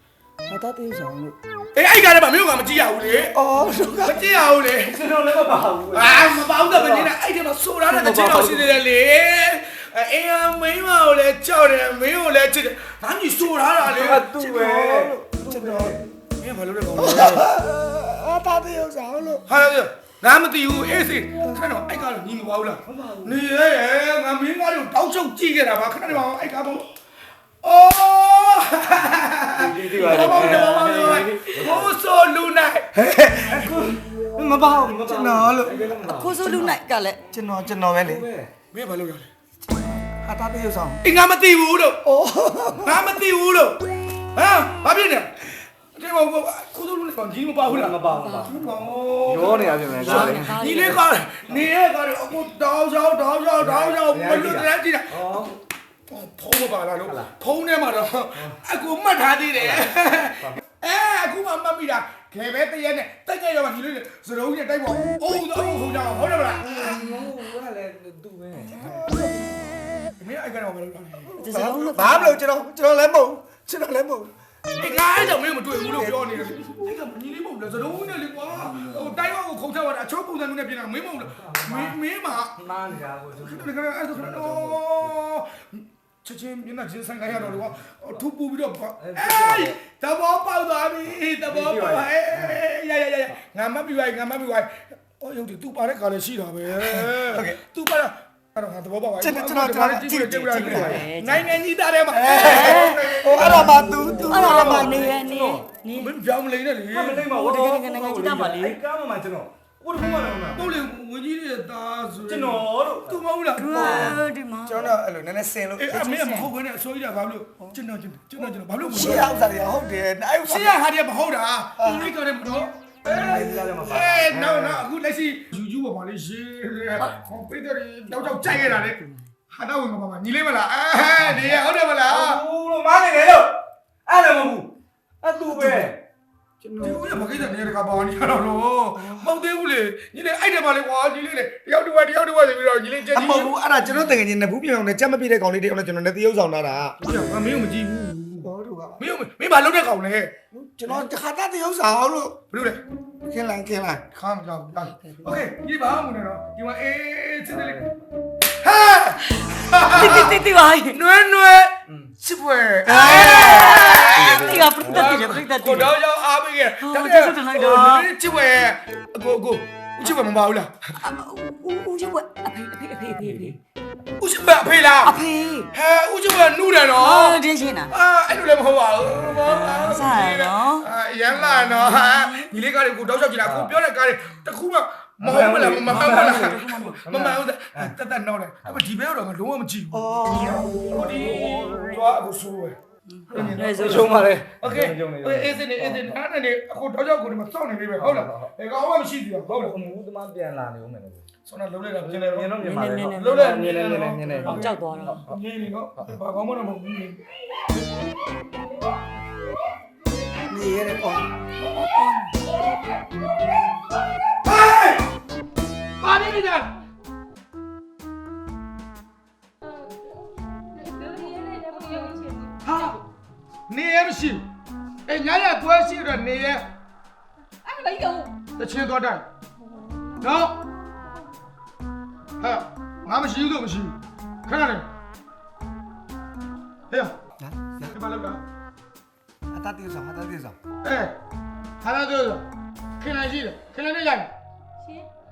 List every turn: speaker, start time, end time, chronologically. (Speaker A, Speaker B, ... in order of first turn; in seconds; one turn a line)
Speaker A: 0.5-1.4
Speaker B: 1.8-5.0
Speaker A: 3.3-4.3
Speaker C: 4.8-7.1
Speaker B: 5.9-14.3
Speaker C: 7.9-8.8
Speaker C: 13.9-16.1
Speaker A: 14.1-16.0
Speaker B: 16.4-17.5
Speaker A: 17.0-19.5
Speaker B: 19.5-26.9
Speaker C: 22.9-23.4
Speaker B: 27.6-32.9
Speaker C: 29.6-32.0
Speaker A: 32.9-33.7
Speaker C: 33.5-36.8
Speaker A: 34.6-35.9
Speaker D: 36.0-37.2
Speaker A: 37.3-38.3
Speaker C: 38.0-38.5
Speaker B: 38.7-39.3
Speaker A: 39.7-41.0
Speaker B: 41.0-42.0
Speaker A: 42.0-43.1
Speaker B: 42.9-43.8
Speaker B: 44.4-55.2
Speaker C: 47.7-50.9
Speaker D: 48.1-48.5
Speaker D: 50.0-51.1
Speaker C: 53.6-55.6
Speaker B: 56.1-67.1
Speaker C: 57.0-57.3
Speaker C: 59.5-59.9
Speaker C: 66.6-69.2
Speaker D: 68.6-68.9
Speaker B: 70.2-71.3
Speaker D: 71.4-72.4
Speaker A: 71.4-75.0
Speaker B: 74.8-82.6
Speaker A: 75.9-76.8
Speaker C: 77.7-79.2
Speaker C: 81.2-82.0
Speaker C: 82.6-85.2
Speaker B: 83.4-104.5
Speaker C: 87.3-87.8
Speaker C: 89.0-89.8
Speaker C: 91.5-92.6
Speaker A: 96.7-97.6
Speaker A: 99.2-101.1
Speaker C: 100.4-100.9
Speaker D: 100.7-101.6
Speaker A: 102.1-105.2
Speaker D: 102.4-103.1
Speaker C: 103.4-103.7
Speaker D: 104.3-106.1
Speaker C: 104.3-105.7
Speaker B: 106.0-107.3
Speaker C: 106.9-110.7
Speaker D: 107.3-108.8
Speaker B: 110.5-114.2
Speaker C: 112.3-113.2
Speaker D: 113.6-114.9
Speaker A: 114.6-116.0
Speaker B: 115.8-119.3
Speaker D: 115.9-116.5
Speaker A: 118.8-120.8
Speaker B: 120.5-129.0
Speaker A: 121.8-122.1
Speaker C: 123.1-124.8
Speaker C: 128.4-128.8
Speaker B: 129.5-132.4
Speaker C: 131.3-133.5
Speaker C: 134.1-134.7
Speaker C: 135.2-136.0
Speaker A: 136.6-137.0
Speaker B: 136.8-143.5
Speaker A: 138.9-139.3
Speaker A: 143.1-147.0
Speaker B: 147.0-150.3
Speaker A: 148.4-149.1
Speaker A: 150.5-152.4
Speaker B: 152.5-152.8
Speaker A: 153.2-154.1
Speaker B: 154.1-157.8
Speaker C: 157.5-157.9
Speaker B: 158.6-170.7
Speaker D: 159.9-161.0
Speaker C: 160.0-160.3
Speaker C: 161.9-162.1
Speaker D: 162.9-165.9
Speaker C: 163.2-165.3
Speaker D: 166.8-168.1
Speaker D: 171.0-173.6
Speaker C: 173.2-173.6
Speaker B: 174.2-192.8
Speaker D: 175.0-175.7
Speaker D: 177.0-177.9
Speaker D: 179.7-180.9
Speaker D: 181.5-182.3
Speaker C: 183.4-183.8
Speaker C: 185.2-187.9
Speaker D: 185.9-187.0
Speaker A: 189.9-191.3
Speaker D: 193.1-194.1
Speaker B: 193.3-199.8
Speaker C: 193.3-196.2
Speaker C: 198.0-198.5
Speaker C: 199.5-201.3
Speaker B: 201.5-207.2
Speaker C: 202.0-205.4
Speaker D: 202.6-203.4
Speaker D: 204.5-205.2
Speaker A: 210.4-211.3
Speaker D: 211.7-212.3
Speaker B: 214.4-215.0
Speaker B: 216.0-216.7
Speaker E: 220.8-223.0
Speaker B: 222.7-223.0
Speaker B: 223.7-224.4
Speaker B: 225.1-226.7
Speaker E: 227.7-228.3
Speaker B: 228.6-229.3
Speaker B: 230.2-230.6
Speaker B: 232.4-233.9
Speaker B: 234.5-234.8
Speaker A: 237.4-238.0
Speaker B: 237.9-238.4
Speaker A: 239.5-240.6
Speaker B: 240.8-241.1
Speaker B: 241.8-242.4
Speaker B: 243.0-244.3